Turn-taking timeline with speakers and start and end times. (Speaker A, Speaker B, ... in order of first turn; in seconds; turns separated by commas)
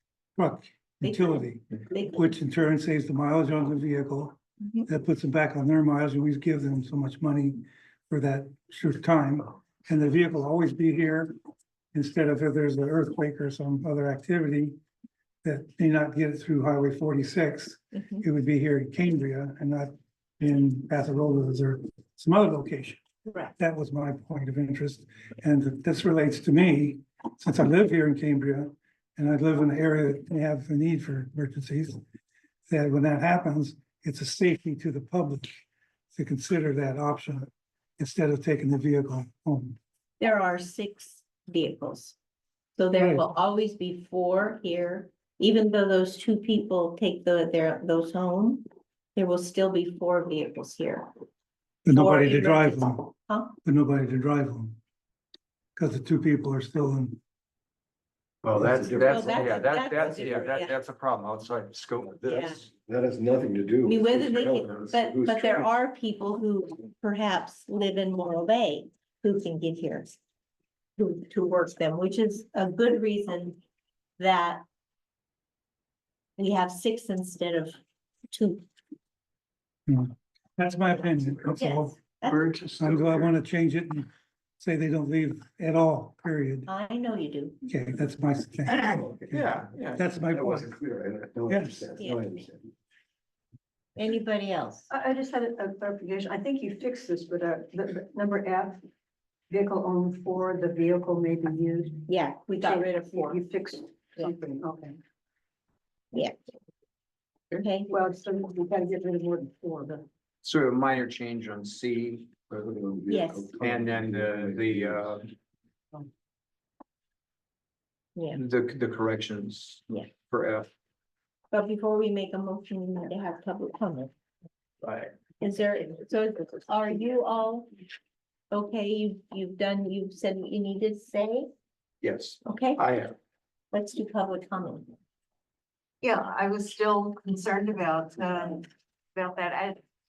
Speaker A: 0.3-11.3, Speaker B: 1.0-2.3, Speaker A: 11.9-14.8, Speaker A: 15.4-23.0, Speaker A: 23.6-32.0, Speaker A: 32.7-35.6, Speaker A: 36.1-39.8, Speaker B: 40.2-42.1, Speaker B: 42.8-48.6, Speaker A: 43.0-43.3, Speaker B: 49.1-51.1, Speaker A: 51.8-54.8, Speaker B: 51.9-53.5, Speaker A: 55.8-57.2, Speaker C: 58.4-62.6, Speaker D: 58.5-59.6, Speaker B: 59.0-60.7, Speaker B: 62.3-62.6, Speaker D: 62.4-65.7, Speaker B: 63.8-70.1, Speaker B: 71.0-73.6, Speaker B: 74.2-74.6, Speaker B: 76.4-77.8, Speaker B: 78.3-78.6, Speaker A: 79.9-82.0, Speaker B: 81.6-82.4, Speaker C: 82.2-83.3, Speaker A: 82.8-84.1, Speaker A: 84.6-86.7, Speaker B: 86.7-87.6, Speaker A: 87.6-90.7, Speaker C: 88.7-90.0, Speaker D: 90.3-92.7, Speaker A: 91.5-91.8, Speaker B: 94.0-94.9, Speaker E: 94.9-98.8, Speaker E: 99.5-105.0, Speaker B: 102.1-103.4, Speaker B: 107.6-107.9, Speaker E: 107.9-110.0, Speaker C: 110.4-112.3, Speaker D: 112.5-115.1, Speaker B: 113.1-113.5, Speaker C: 113.5-115.2, Speaker C: 118.3-120.7, Speaker B: 121.5-124.1, Speaker C: 124.8-125.2, Speaker B: 125.4-127.7, Speaker B: 128.5-131.5, Speaker C: 132.0-133.1, Speaker B: 132.4-132.8, Speaker B: 133.7-134.9, Speaker F: 136.0-139.8